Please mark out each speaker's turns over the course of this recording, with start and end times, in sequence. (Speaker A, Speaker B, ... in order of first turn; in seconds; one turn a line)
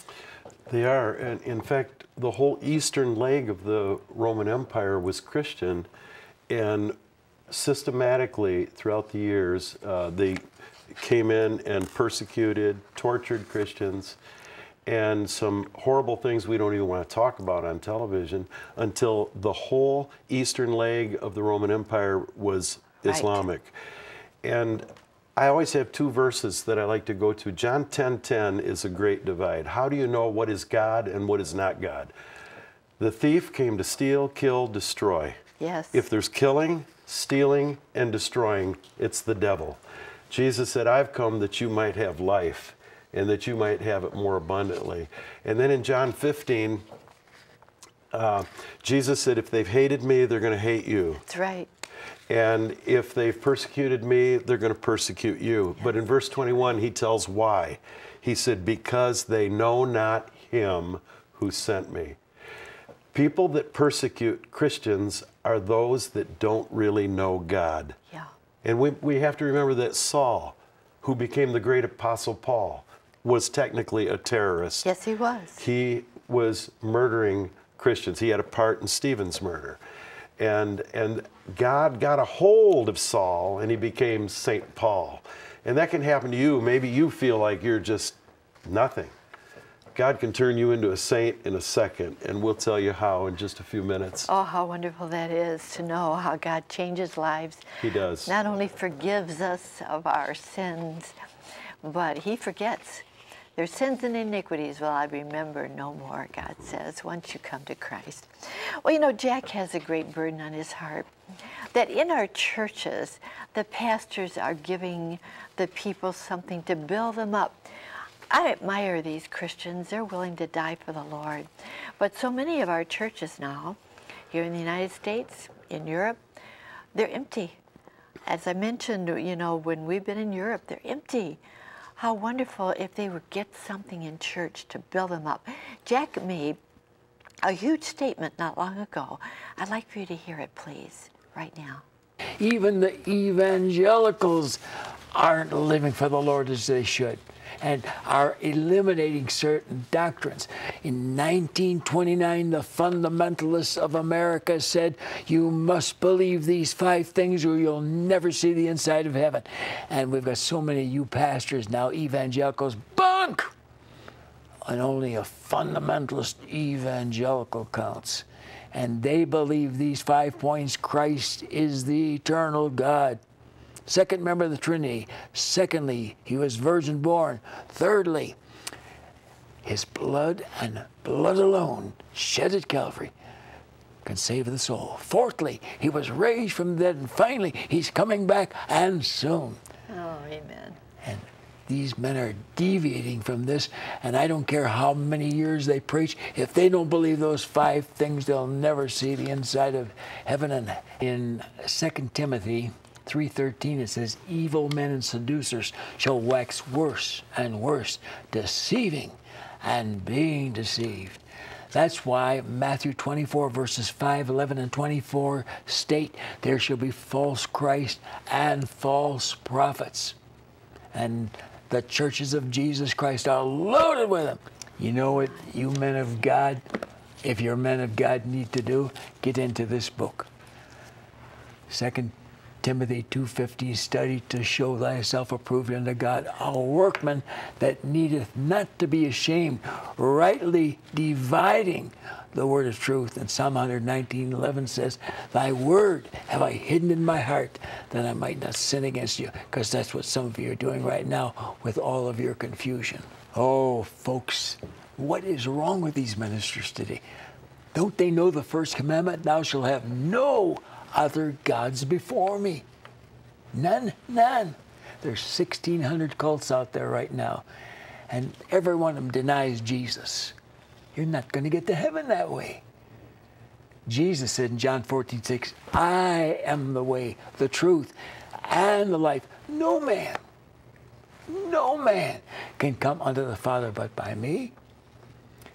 Speaker A: 0.7-5.9
Speaker A: 6.5-7.0
Speaker A: 7.5-14.2
Speaker A: 14.9-23.7
Speaker B: 23.1-23.4
Speaker A: 24.4-32.1
Speaker A: 33.0-35.4
Speaker B: 35.6-36.0
Speaker A: 35.9-46.8
Speaker A: 48.1-51.2
Speaker B: 51.3-51.7
Speaker A: 52.3-62.2
Speaker A: 63.1-68.0
Speaker A: 68.6-74.9
Speaker B: 74.8-75.6
Speaker A: 75.6-79.8
Speaker A: 80.4-89.1
Speaker A: 89.9-94.3
Speaker B: 94.3-97.7
Speaker A: 97.8-98.3
Speaker B: 98.3-101.2
Speaker B: 101.8-103.0
Speaker B: 103.6-111.1
Speaker B: 111.7-117.6
Speaker B: 118.3-121.5
Speaker B: 122.0-123.8
Speaker B: 124.3-126.2
Speaker B: 126.9-127.6
Speaker B: 128.3-131.4
Speaker B: 132.0-136.6
Speaker B: 137.4-141.8
Speaker C: 142.4-144.6
Speaker C: 145.1-163.5
Speaker C: 164.7-173.2
Speaker C: 173.9-178.4
Speaker C: 179.6-183.1
Speaker C: 184.0-189.6
Speaker B: 189.9-190.8
Speaker C: 191.0-211.2
Speaker C: 211.7-220.2
Speaker C: 220.9-230.3
Speaker C: 231.7-257.0
Speaker C: 257.7-262.6
Speaker C: 263.5-267.4
Speaker C: 268.1-270.4
Speaker C: 270.9-272.6
Speaker C: 273.9-280.2
Speaker C: 281.3-284.6